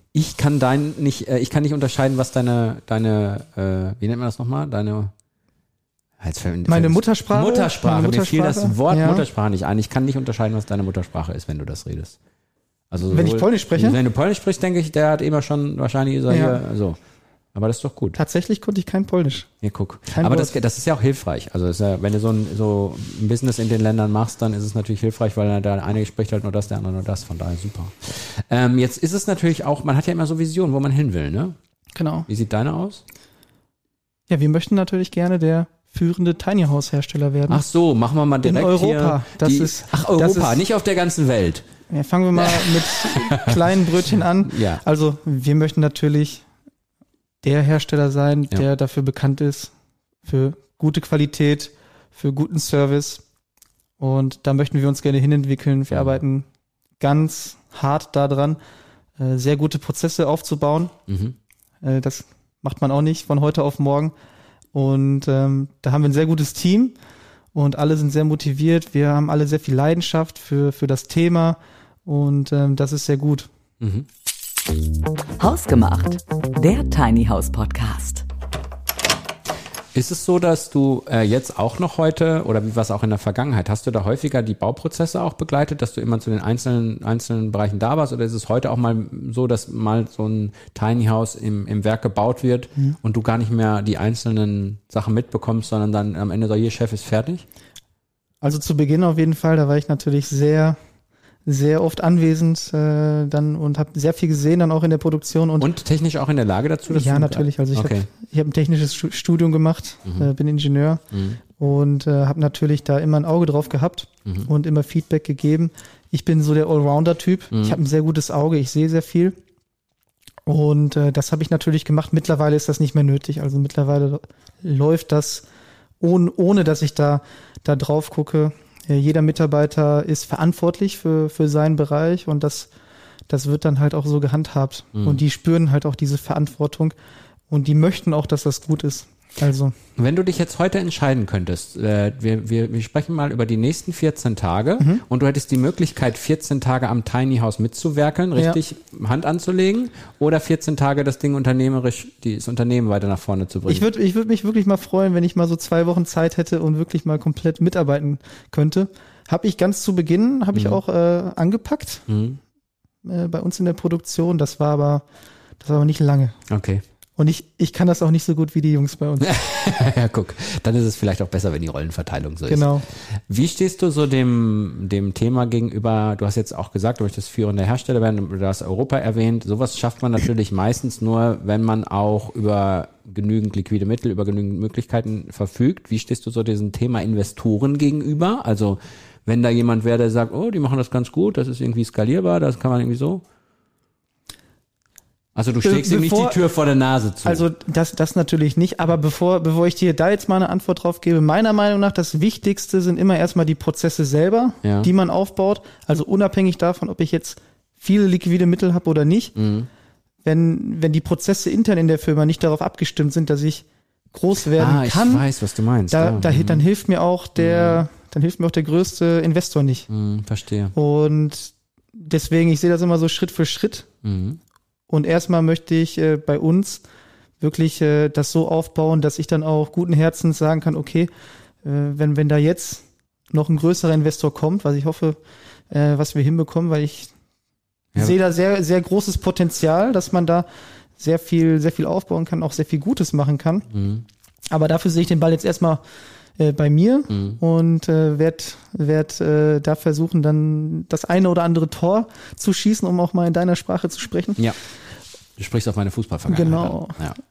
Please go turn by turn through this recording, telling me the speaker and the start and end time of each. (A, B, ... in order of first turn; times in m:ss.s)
0:00.1-0:05.1 A
0:06.2-0:12.2 A
0:06.7-0:09.3 B
0:12.9-0:17.0 A
0:13.1-0:14.0 B
0:16.3-0:16.6 B
0:17.5-0:18.2 A
0:18.2-0:19.5 B
0:19.6-0:31.5 A
0:20.1-0:20.5 B
0:32.0-0:32.3 B
0:32.3-0:33.0 A
0:34.3-0:37.6 B
0:37.5-0:41.6 A
0:38.4-0:40.6 B
0:41.9-0:46.4 B
0:42.4-0:43.7 A
0:44.4-0:44.8 A
0:47.4-0:49.7 B
0:50.2-0:53.2 B
0:54.0-0:56.4 B
0:55.9-0:56.2 A
0:57.0-0:58.6 B
0:59.2-1:00.9 B
1:01.1-1:01.3 A
1:01.8-1:04.1 B
1:04.7-1:07.0 B
1:07.5-1:13.5 B
1:13.8-1:14.0 A
1:15.4-1:18.2 C
1:19.9-1:37.4 A
1:38.4-1:40.8 B
1:41.4-1:45.7 B
1:45.6-1:48.1 A
1:46.9-1:59.4 B
1:50.0-1:50.3 A
1:51.1-1:51.4 A
1:57.5-1:57.8 A
2:00.4-2:05.4 B
2:06.0-2:12.7 B
2:13.3-2:16.9 B
2:14.9-2:15.2 A
2:17.5-2:19.7 B
2:20.0-2:33.9 A
2:28.3-2:28.6 B
2:33.7-2:42.0 B
2:40.5-2:40.8 A
2:42.1-2:42.4 A
2:43.0-2:45.0 B
2:45.6-2:46.4 B
2:46.5-2:46.8 A
2:47.2-2:49.4 B
2:49.2-3:13.2 A
2:52.5-2:52.8 B
3:15.3-3:17.4 A
3:15.6-3:16.4 B
3:17.2-3:29.3 B
3:24.6-3:24.9 A
3:29.4-3:29.7 A
3:30.2-3:35.2 B
3:34.4-3:36.6 A
3:35.9-3:39.9 B
3:37.4-3:37.8 A
3:39.9-3:40.7 A
3:40.7-3:43.9 B
3:44.0-3:44.4 A
3:44.9-3:46.8 B
3:47.4-3:51.1 B
3:51.6-3:55.2 B
3:55.7-3:57.1 B
3:58.0-4:00.5 B
4:01.0-4:03.7 B
4:03.7-4:04.0 A
4:04.5-4:05.8 B
4:06.4-4:14.4 B
4:07.1-4:07.4 A
4:15.4-4:17.2 A
4:16.3-4:17.0 B